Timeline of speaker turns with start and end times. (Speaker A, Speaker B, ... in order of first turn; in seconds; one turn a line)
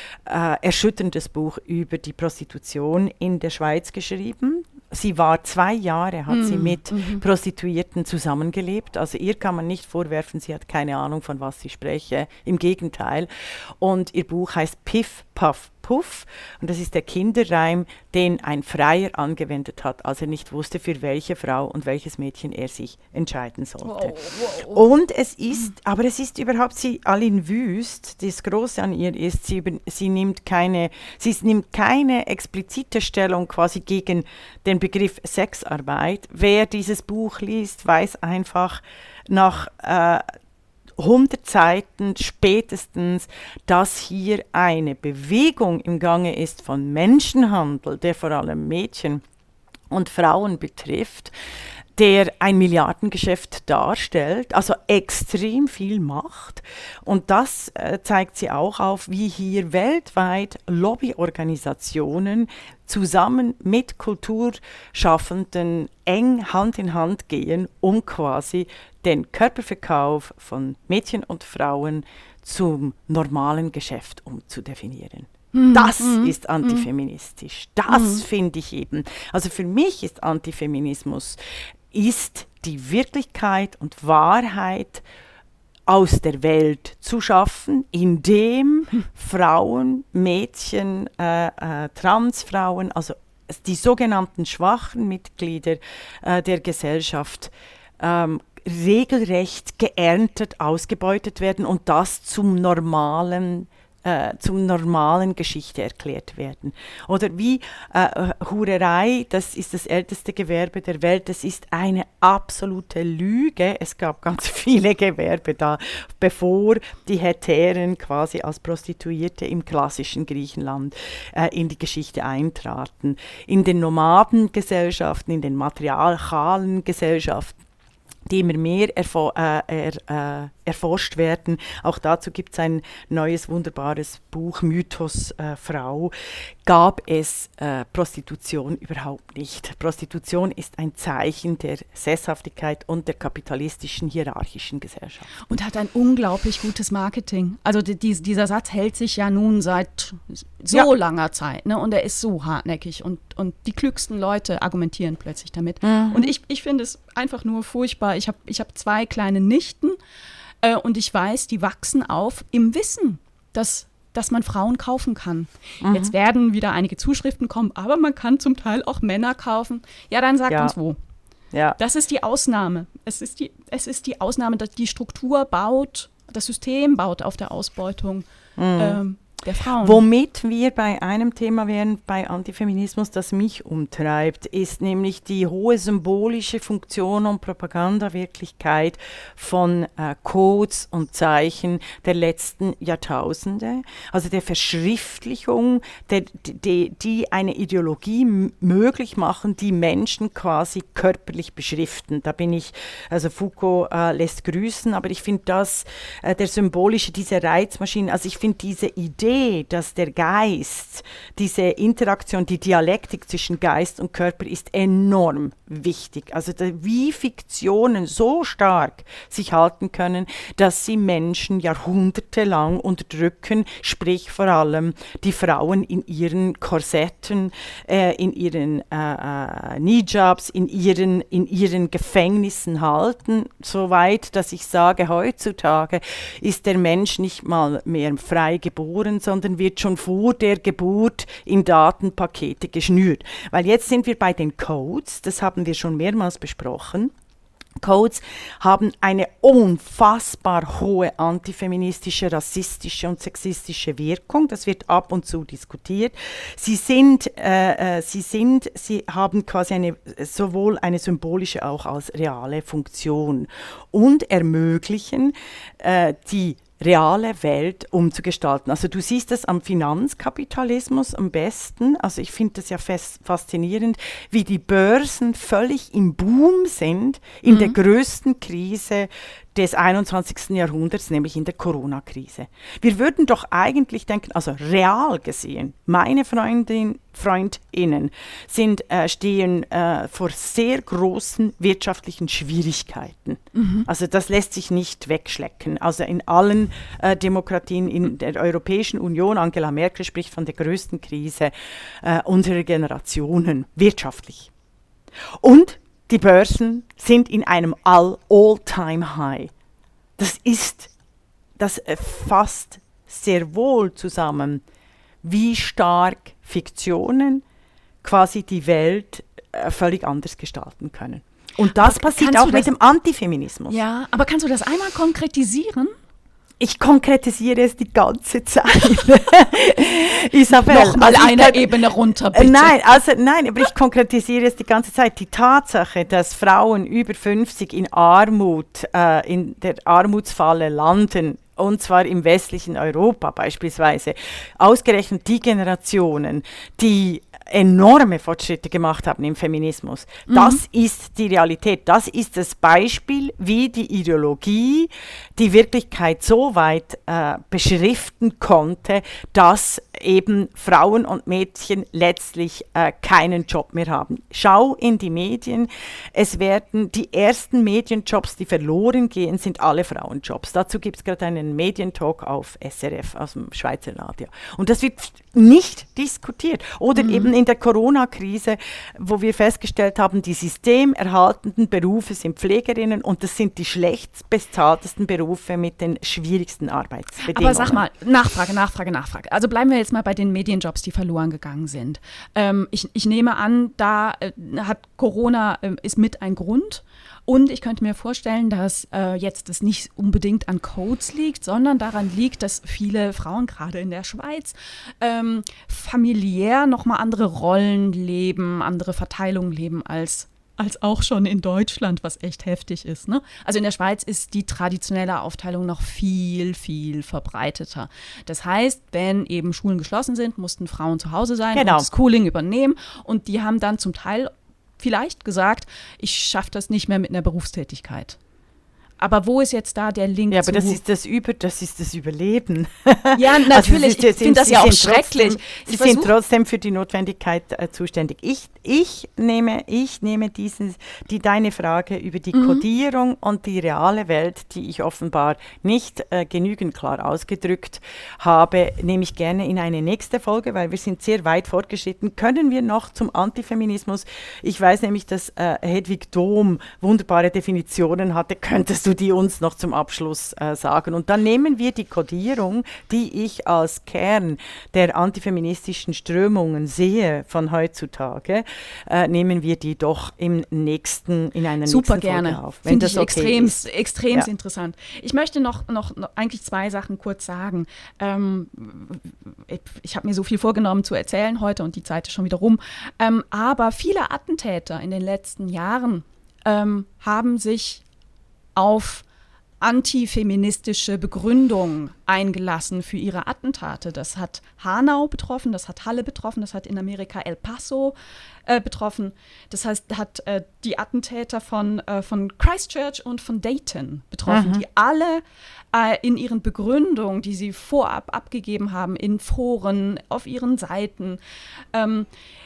Speaker A: 0.2-40.2
Speaker B: 6.3-7.2
Speaker B: 23.8-24.8
Speaker A: 41.0-49.2
Speaker A: 49.9-51.3
Speaker A: 52.0-81.4
Speaker B: 75.5-76.9
Speaker B: 77.9-78.2
Speaker A: 81.9-85.0
Speaker A: 85.9-127.5
Speaker A: 128.3-136.1
Speaker A: 136.6-145.4
Speaker B: 145.4-160.0
Speaker A: 155.8-156.3
Speaker B: 160.6-170.9
Speaker A: 165.8-166.1
Speaker A: 171.5-171.8
Speaker B: 171.8-178.2
Speaker A: 178.6-179.0
Speaker B: 178.8-180.0
Speaker A: 179.8-247.1
Speaker A: 247.8-304.5
Speaker B: 277.5-277.7
Speaker B: 293.5-293.9
Speaker A: 305.4-309.5
Speaker A: 310.2-310.9
Speaker A: 311.6-314.6
Speaker A: 315.2-317.4
Speaker A: 318.0-323.8
Speaker B: 321.8-322.7
Speaker B: 323.7-325.9
Speaker A: 326.6-387.8
Speaker B: 330.5-332.9
Speaker B: 350.3-350.6
Speaker B: 377.0-377.3
Speaker B: 387.3-428.2
Speaker A: 421.5-421.9
Speaker B: 429.0-430.8
Speaker A: 430.3-473.6
Speaker B: 433.1-436.1
Speaker B: 442.3-442.6
Speaker B: 471.6-487.8
Speaker B: 488.6-489.0
Speaker B: 489.6-497.9
Speaker B: 498.4-511.2
Speaker A: 504.3-504.6
Speaker B: 511.7-512.1